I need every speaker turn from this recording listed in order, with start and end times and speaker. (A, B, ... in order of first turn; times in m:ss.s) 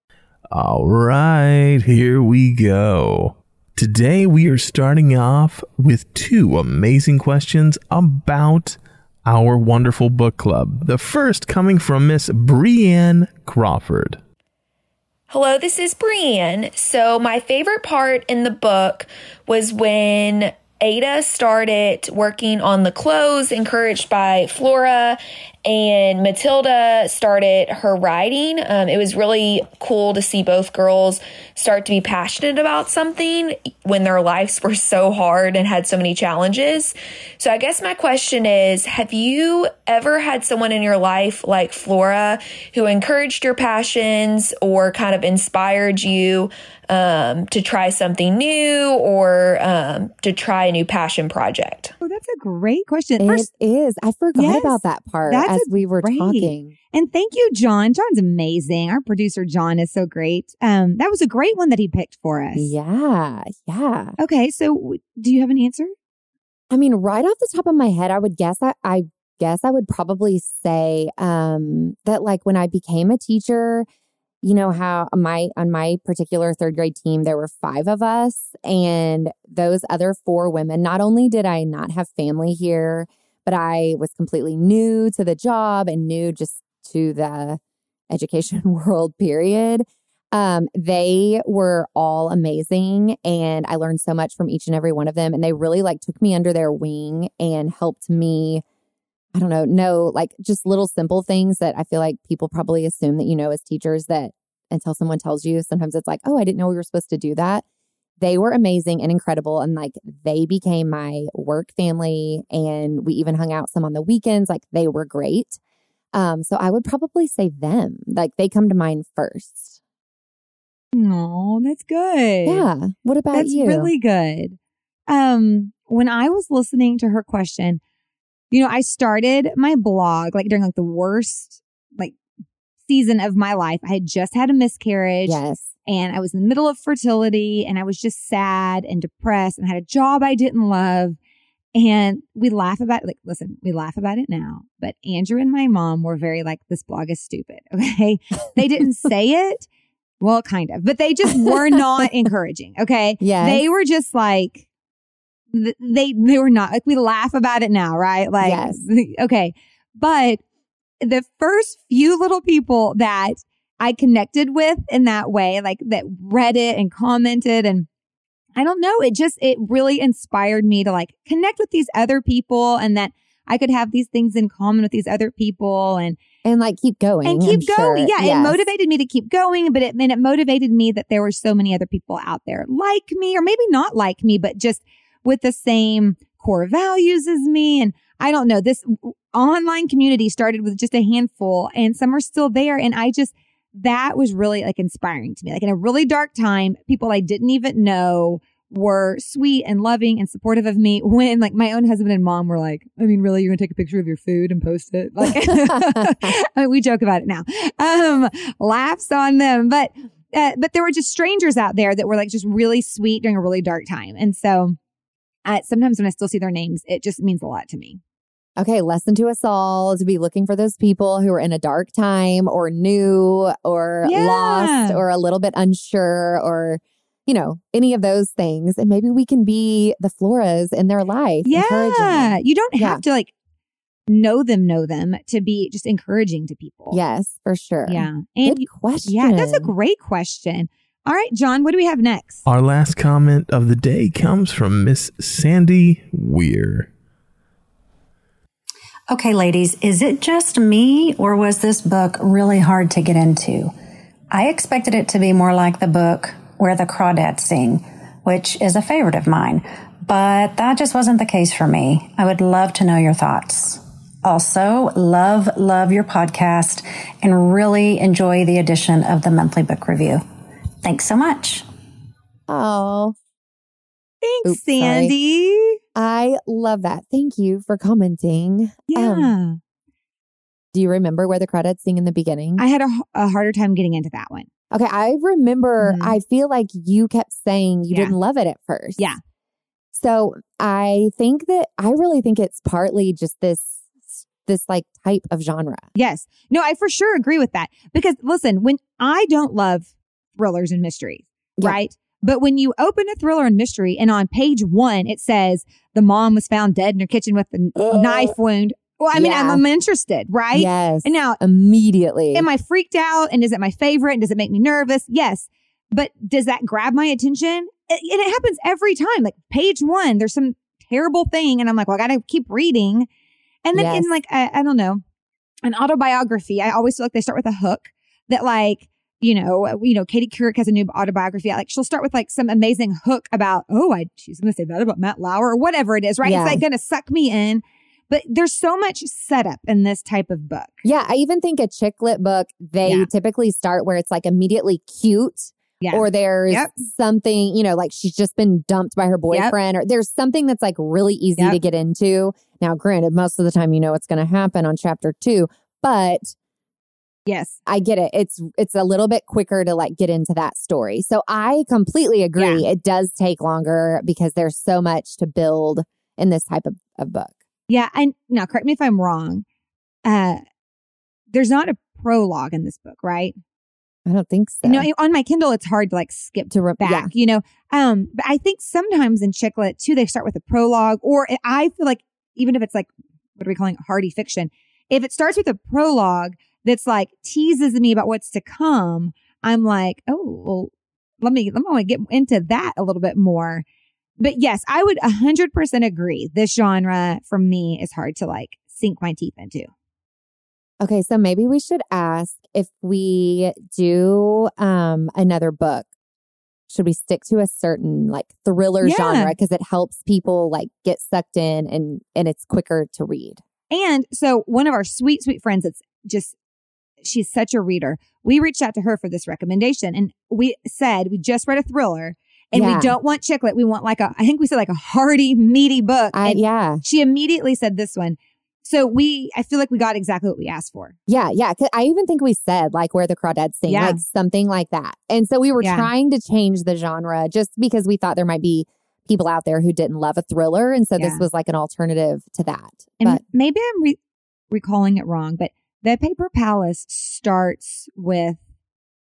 0:00.5-0:14.2 A
0:15.3-0:51.9 B
0:52.0-0:53.5 C
0:53.2-0:56.7 D
0:54.4-1:02.7 C
1:02.6-1:04.2 D
1:04.2-1:05.9 C
1:06.7-1:13.9 D
1:14.4-1:38.6 D
1:39.3-1:47.6 D
1:48.2-1:55.6 D
1:56.1-1:59.8 D
2:00.9-2:02.7 C
2:02.5-2:03.9 D
2:03.3-2:04.6 C
2:05.1-2:07.8 C
2:08.5-2:12.2 C
2:12.8-2:21.2 C
2:15.3-2:15.7 D
2:21.8-2:29.7 C
2:30.2-2:34.7 C
2:33.2-2:33.6 D
2:35.5-2:40.4 C
2:38.4-2:38.8 D
2:41.0-2:47.9 C
2:48.6-2:56.2 C
2:56.4-2:58.6 D
2:57.2-3:34.8 C
3:25.2-3:26.1 D
3:35.4-3:38.0 C
3:38.6-3:53.0 D
3:44.0-3:45.0 C
3:51.4-3:53.3 C
3:54.1-3:57.0 C
3:56.9-3:59.7 D
3:57.9-4:02.4 C
4:02.5-4:06.9 A
4:09.1-4:13.7 E
4:14.3-4:30.2 E
4:30.8-4:31.6 E
4:32.5-4:33.2 D
4:34.2-4:35.8 C
4:34.4-4:35.1 D
4:36.0-4:39.3 D
4:38.9-4:39.6 C
4:40.7-4:42.6 D
4:42.6-4:44.5 C
4:44.7-4:49.1 D
4:45.8-4:46.2 C
4:49.9-4:55.9 D
4:56.0-5:11.4 C
5:07.9-5:08.3 D
5:09.1-5:09.6 D
5:10.5-5:12.5 D
5:12.3-5:23.1 C
5:23.6-5:25.0 C
5:23.7-5:24.2 D
5:25.6-5:40.8 C
5:36.2-5:36.6 D
5:40.8-5:56.3 D
5:42.8-5:43.1 C
5:45.8-5:46.7 C
5:57.3-5:57.6 C
5:57.7-6:07.4 D
6:02.4-6:02.7 C
6:07.7-6:09.4 C
6:10.0-6:10.4 C
6:11.3-6:13.4 C
6:14.1-6:14.9 D
6:14.6-6:33.6 C
6:16.5-6:17.1 D
6:34.2-6:39.7 C
6:40.8-6:45.9 D
6:46.7-6:53.4 D
6:48.8-6:49.3 C
6:53.7-6:56.4 C
6:57.0-7:11.0 C
7:02.5-7:03.0 D
7:06.1-7:06.8 D
7:11.1-7:23.2 D
7:13.7-7:14.0 C
7:15.6-7:15.9 C
7:21.0-7:21.2 C
7:23.0-7:24.0 C
7:24.5-7:28.4 C